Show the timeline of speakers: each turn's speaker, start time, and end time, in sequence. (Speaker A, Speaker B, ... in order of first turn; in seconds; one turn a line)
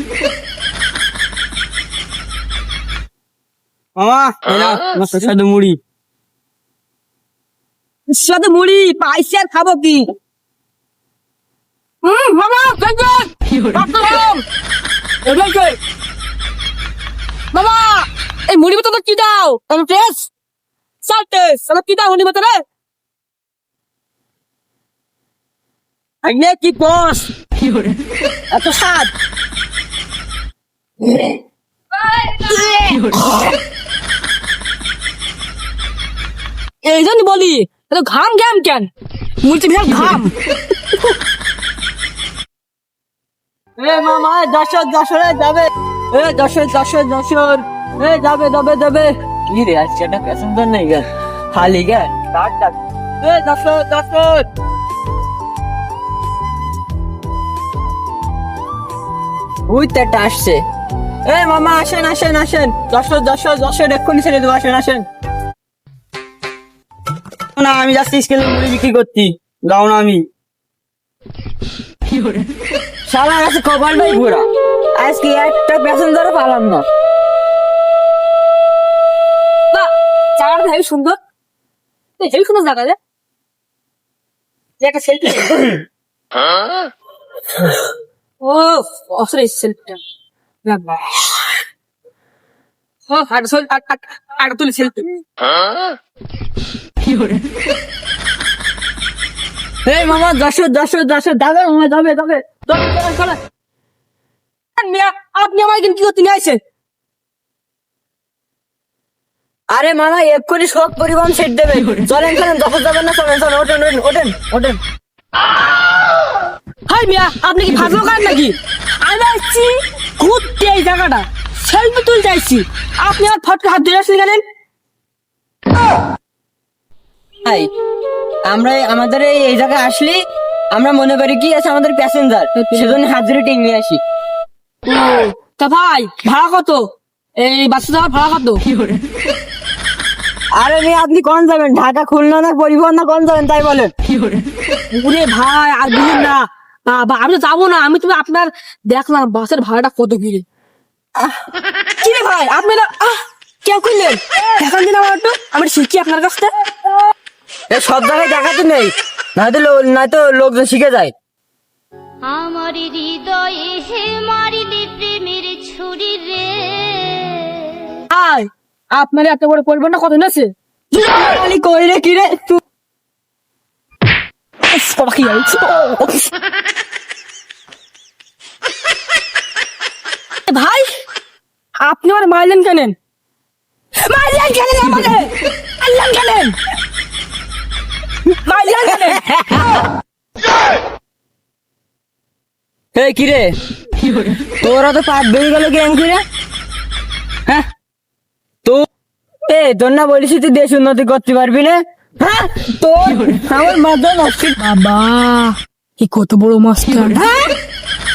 Speaker A: 4.0-5.8
Speaker B: 8.1-10.1
Speaker B: 12.0-14.4
Speaker B: 15.2-15.8
Speaker B: 17.5-20.3
Speaker B: 21.0-22.6
Speaker A: 26.2-27.3
Speaker A: 28.5-29.1
Speaker B: 32.0-33.0
Speaker B: 36.8-38.9
Speaker B: 39.4-40.3
Speaker A: 43.8-54.5
Speaker A: 59.7-60.6
Speaker A: 61.3-65.0
Speaker A: 67.6-70.2
Speaker A: 73.1-74.5
Speaker A: 75.0-76.8
Speaker B: 79.7-81.2
Speaker B: 82.2-83.0
Speaker B: 84.8-85.8
Speaker B: 88.4-90.0
Speaker B: 90.7-91.3
Speaker B: 93.1-95.2
Speaker A: 99.8-102.5
Speaker B: 102.7-103.4
Speaker B: 104.8-106.6
Speaker A: 109.7-114.8
Speaker B: 116.9-124.4
Speaker A: 127.5-127.7
Speaker A: 128.5-134.0
Speaker B: 132.6-133.0
Speaker B: 134.9-136.9
Speaker B: 137.4-138.6
Speaker A: 140.6-143.9
Speaker B: 144.9-150.4
Speaker B: 152.0-156.5
Speaker A: 157.7-161.1
Speaker C: 162.2-168.0
Speaker B: 168.1-170.5
Speaker A: 170.9-172.6
Speaker B: 174.7-176.2
Speaker B: 180.5-180.9
Speaker B: 181.8-182.9
Speaker B: 184.0-186.6
Speaker B: 188.4-189.2
Speaker A: 189.0-189.7
Speaker A: 192.9-193.6
Speaker A: 194.6-196.2
Speaker A: 199.5-204.6
Speaker B: 204.6-207.3